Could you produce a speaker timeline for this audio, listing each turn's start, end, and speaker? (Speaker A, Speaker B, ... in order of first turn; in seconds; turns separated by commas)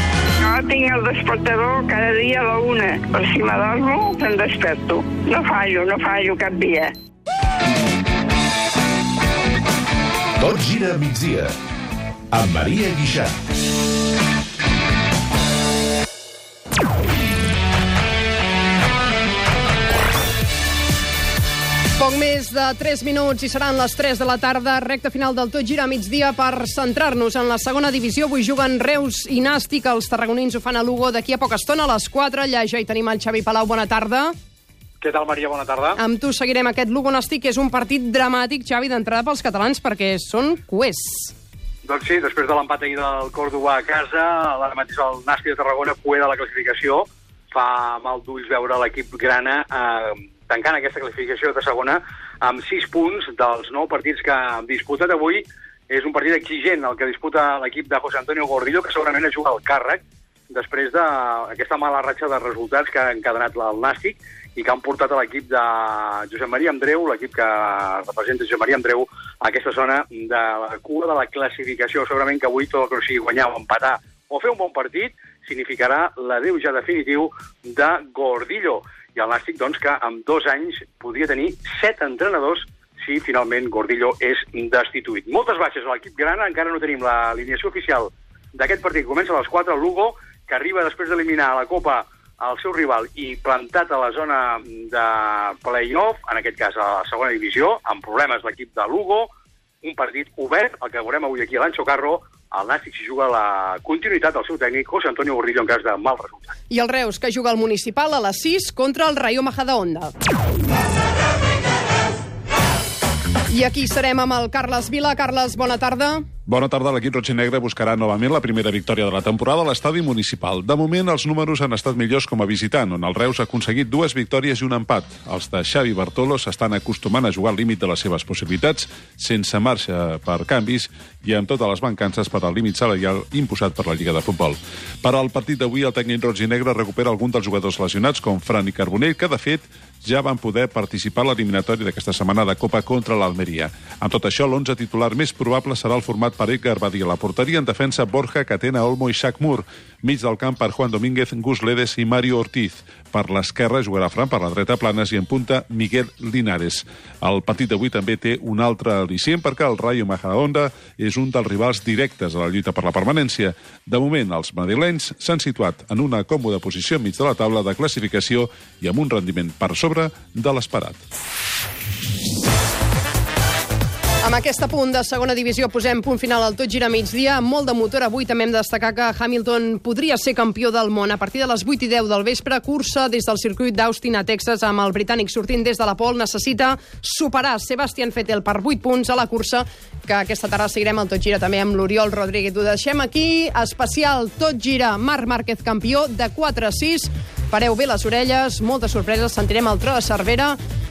Speaker A: 0.4-6.9, Speaker B: 10.4-11.5, Speaker B: 12.3-13.3, Speaker C: 22.0-34.3, Speaker D: 35.0-36.0, Speaker C: 36.0-41.3, Speaker D: 41.8-99.3, Speaker D: 99.8-106.5, Speaker C: 106.7-110.1, Speaker C: 113.5-116.2, Speaker E: 116.5-171.0, Speaker C: 174.2-200.6